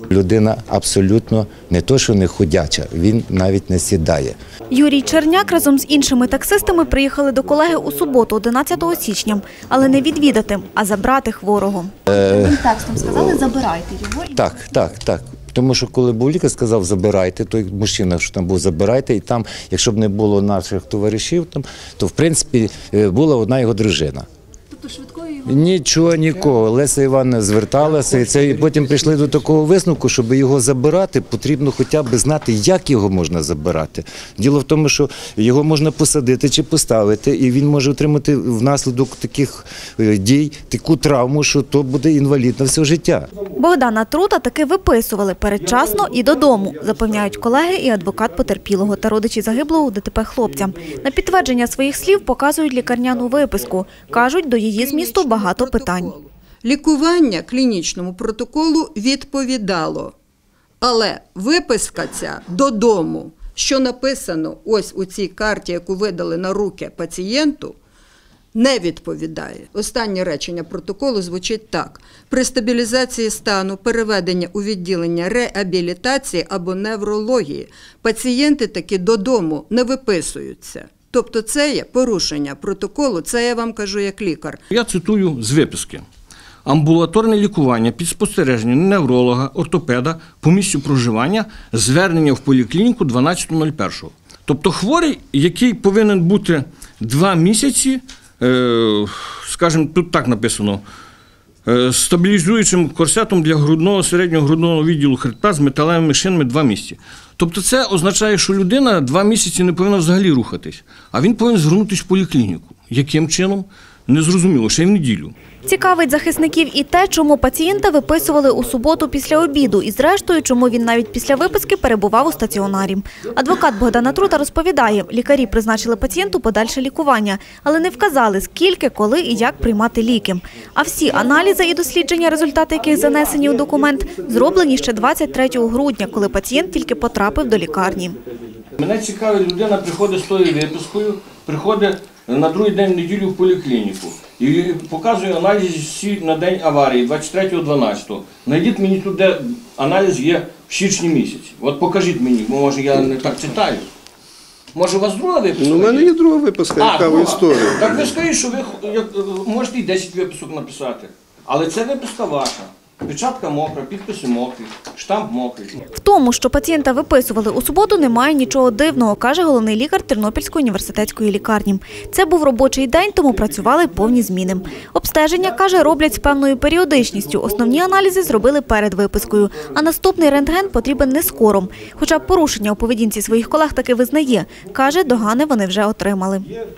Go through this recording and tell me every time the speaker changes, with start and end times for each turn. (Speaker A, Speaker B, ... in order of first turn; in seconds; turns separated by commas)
Speaker A: 0.1-4.3, Speaker B: 4.7-14.5, Speaker A: 12.1-12.6, Speaker A: 14.3-24.2, Speaker A: 25.2-43.2, Speaker B: 43.5-56.1, Speaker C: 54.8-60.1, Speaker C: 60.8-67.8, Speaker C: 68.5-84.6, Speaker D: 84.7-86.0, Speaker D: 86.6-100.8, Speaker D: 101.7-115.3, Speaker B: 115.6-138.2, Speaker D: 138.8-153.9, Speaker D: 154.7-156.1, Speaker E: 155.6-158.1, Speaker D: 156.8-165.8, Speaker B: 165.9-186.5